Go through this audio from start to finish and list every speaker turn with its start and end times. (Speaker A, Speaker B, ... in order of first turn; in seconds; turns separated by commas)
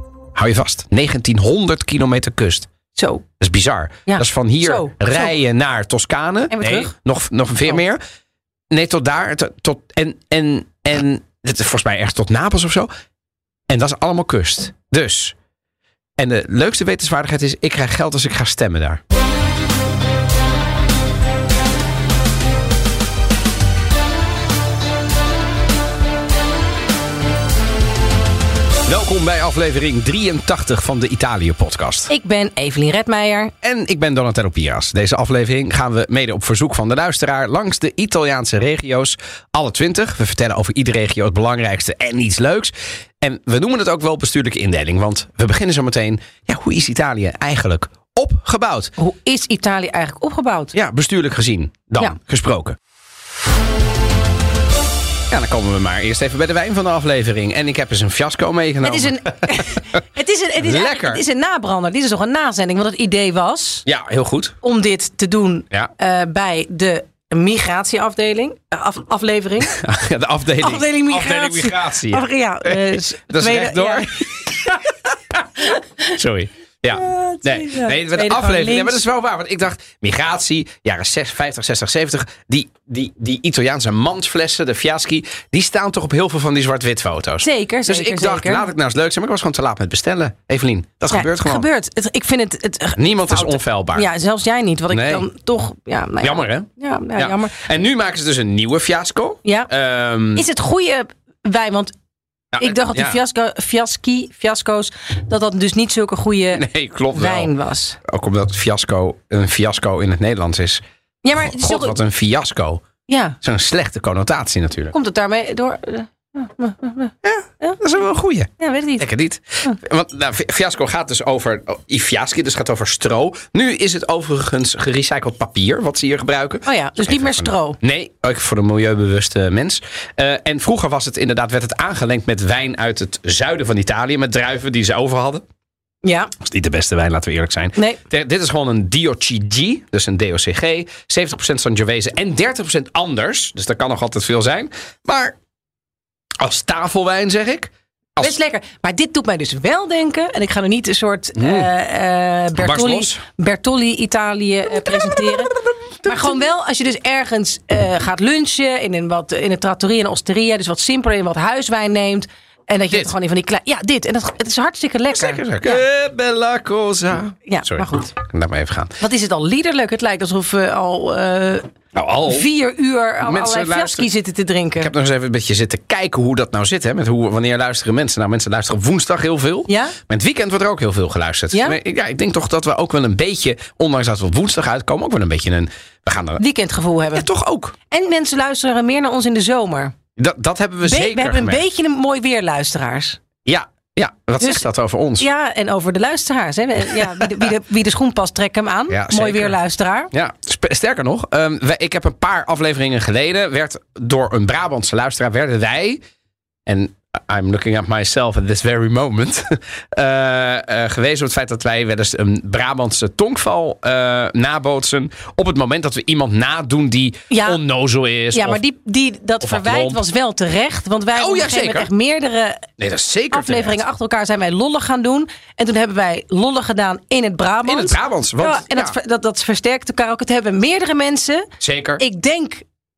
Speaker A: 0.3-2.7, Speaker B: 3.0-3.2, Speaker A: 3.4-8.0, Speaker B: 4.1-5.3, Speaker B: 6.5-6.9, Speaker A: 8.7-12.9, Speaker A: 13.7-15.3, Speaker A: 16.2-19.0, Speaker A: 28.9-32.1, Speaker B: 32.1-33.5, Speaker A: 33.6-48.9, Speaker B: 49.0-50.7, Speaker A: 50.7-52.8, Speaker A: 55.3-59.7, Speaker B: 58.8-63.8, Speaker A: 60.6-61.2, Speaker A: 63.9-64.5, Speaker B: 64.6-69.8, Speaker A: 69.7-74.8, Speaker B: 70.6-74.7, Speaker A: 76.1-91.7, Speaker B: 77.0-79.0, Speaker B: 87.4-88.7, Speaker B: 91.1-97.6, Speaker A: 93.0-94.0, Speaker A: 94.9-95.2, Speaker A: 96.2-100.4, Speaker B: 99.4-99.7, Speaker B: 100.3-101.9, Speaker A: 102.5-103.2, Speaker B: 102.6-108.0, Speaker A: 106.5-107.5, Speaker A: 108.0-110.8, Speaker B: 111.2-112.0, Speaker A: 111.3-112.8, Speaker B: 113.1-113.4, Speaker A: 113.4-114.9, Speaker B: 114.9-117.8, Speaker A: 117.2-135.4, Speaker B: 118.6-119.1, Speaker B: 126.6-127.8, Speaker B: 136.0-136.3, Speaker A: 136.4-145.3, Speaker A: 146.4-148.3, Speaker B: 148.2-165.8, Speaker A: 151.4-151.7, Speaker A: 152.6-153.2, Speaker A: 156.0-156.3, Speaker A: 165.1-168.9, Speaker B: 167.4-168.1, Speaker B: 169.0-171.6, Speaker A: 171.9-172.4, Speaker B: 172.2-174.9, Speaker A: 173.2-174.1, Speaker A: 174.8-186.4, Speaker B: 179.7-179.9, Speaker B: 186.4-187.2, Speaker A: 187.1-187.7, Speaker B: 187.9-189.9, Speaker A: 190.2-191.6, Speaker B: 190.8-193.2, Speaker A: 193.4-195.2, Speaker B: 195.2-200.1, Speaker A: 196.9-197.3, Speaker A: 198.9-199.5, Speaker A: 200.1-206.0, Speaker A: 206.7-218.6, Speaker B: 217.3-217.6, Speaker B: 218.3-222.7, Speaker A: 219.4-220.0, Speaker A: 221.1-221.9, Speaker A: 222.8-223.8, Speaker B: 223.3-231.4, Speaker A: 227.7-228.9, Speaker A: 231.6-232.0, Speaker B: 232.0-232.6